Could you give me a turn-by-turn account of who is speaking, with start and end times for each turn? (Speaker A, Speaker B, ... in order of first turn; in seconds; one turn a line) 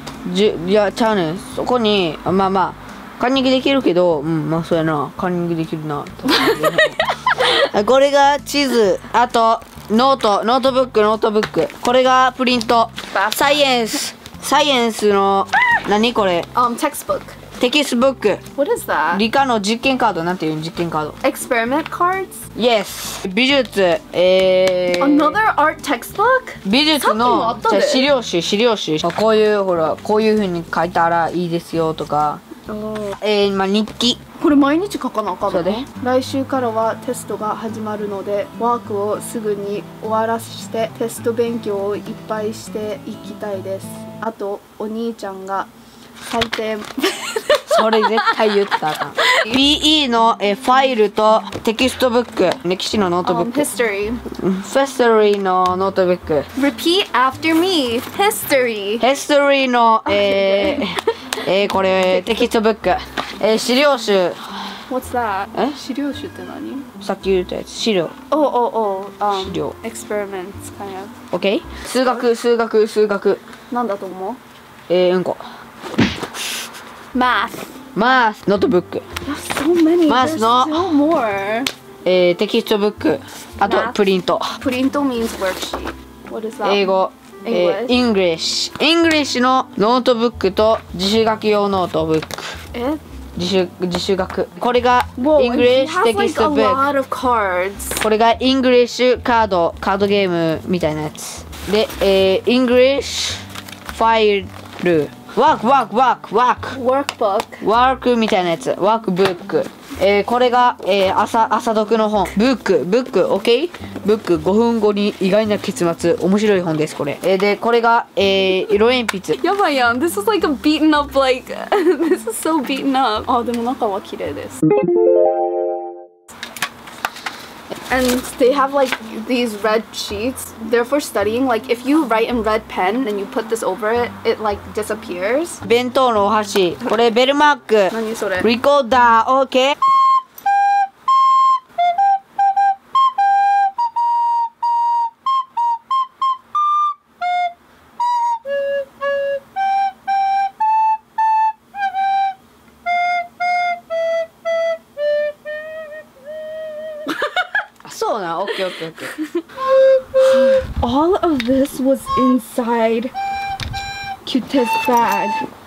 Speaker A: 0.2-16.5
Speaker B: 6.3-7.5
Speaker B: 13.1-13.6
Speaker B: 16.5-17.4
Speaker A: 17.6-18.4
Speaker B: 18.6-19.2
Speaker A: 19.1-21.2
Speaker B: 21.2-22.4
Speaker A: 22.6-25.4
Speaker B: 25.0-28.1
Speaker A: 26.6-32.4
Speaker B: 32.7-33.2
Speaker A: 33.2-34.2
Speaker B: 34.4-45.7
Speaker A: 35.5-35.8
Speaker B: 46.3-48.4
Speaker A: 47.7-53.7
Speaker B: 53.2-54.2
Speaker A: 54.3-56.5
Speaker B: 56.6-59.0
Speaker A: 59.0-64.5
Speaker B: 60.1-61.5
Speaker B: 64.9-66.9
Speaker A: 67.0-68.1
Speaker B: 68.3-71.1
Speaker A: 69.3-69.8
Speaker A: 71.3-73.4
Speaker B: 73.7-74.4
Speaker A: 74.9-75.4
Speaker B: 77.1-77.8
Speaker A: 78.0-79.0
Speaker B: 79.2-81.7
Speaker A: 80.1-80.9
Speaker A: 82.0-84.5
Speaker B: 83.6-84.0
Speaker B: 84.6-86.9
Speaker A: 86.6-92.6
Speaker B: 87.5-88.0
Speaker B: 92.7-93.0
Speaker A: 93.4-96.9
Speaker B: 95.2-98.0
Speaker A: 98.0-106.8
Speaker B: 106.7-107.6
Speaker A: 107.6-119.4
Speaker B: 119.3-124.6
Speaker B: 127.9-135.6
Speaker A: 135.7-139.8
Speaker B: 137.9-138.5
Speaker A: 157.8-159.1
Speaker B: 160.2-163.1
Speaker B: 164.2-165.5